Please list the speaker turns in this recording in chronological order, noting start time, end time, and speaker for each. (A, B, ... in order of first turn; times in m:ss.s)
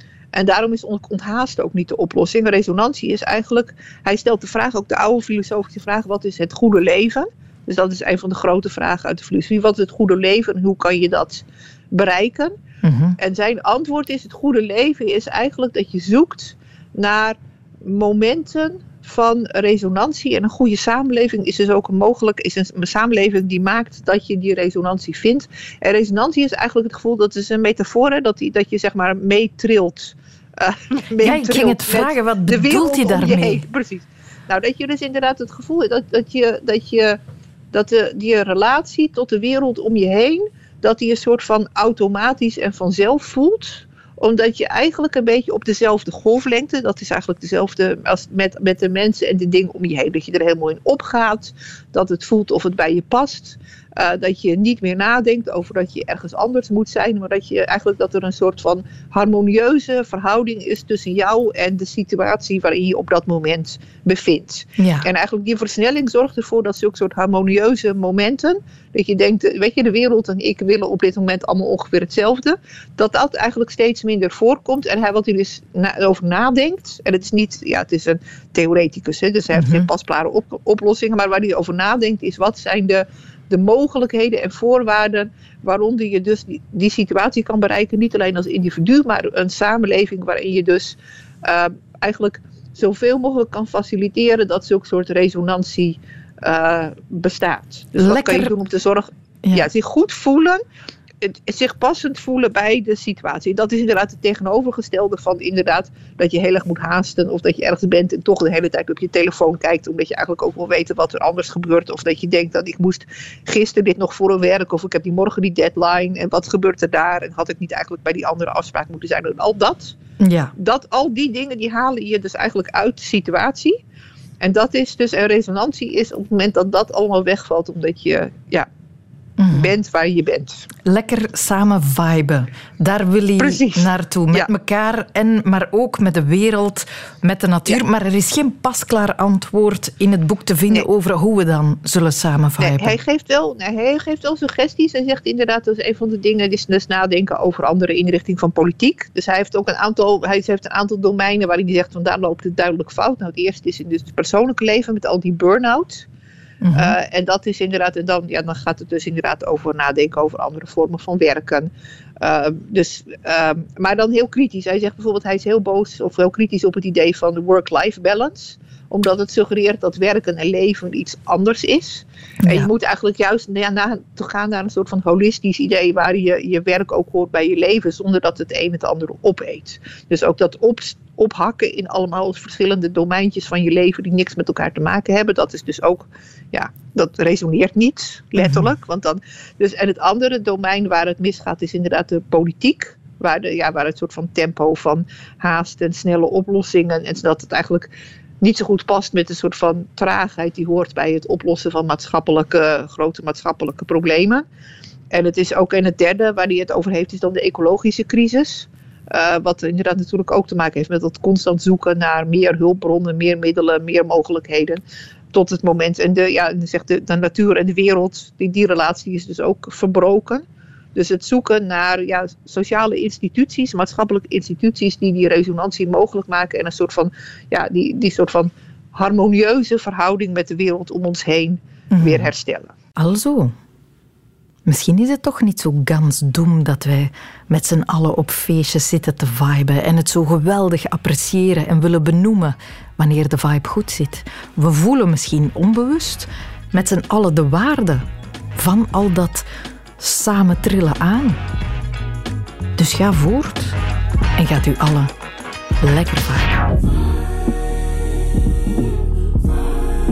0:00.3-0:12.5 A
0:12.8-0:13.2 B
0:13.2-0:37.2 A
0:31.2-0:33.6 B
0:37.7-1:40.6 A
1:04.8-1:05.1 B
1:19.5-1:19.9 B
1:38.0-1:38.5 B
1:41.2-2:00.0 A
2:00.2-2:00.5 B
2:00.6-2:03.8 A
2:04.4-2:08.7 A
2:09.4-2:09.7 B
2:09.5-2:10.6 A
2:10.8-2:22.9 B
2:13.4-2:14.5 A
2:22.6-2:36.0 A
2:36.6-2:36.9 B
2:36.8-2:41.7 A
2:42.2-3:17.9 A
2:52.4-2:52.7 B
3:08.4-3:08.7 B
3:18.4-3:24.5 A
3:25.1-3:34.8 A
3:35.3-3:40.4 A
3:41.0-3:52.7 A
3:51.9-3:52.3 B
3:53.0-3:53.5 B
3:54.7-4:08.1 B
4:08.6-4:09.4 B
4:10.0-4:11.4 B
4:12.8-4:13.8 B
4:14.4-4:15.1 B
4:15.8-4:16.6 B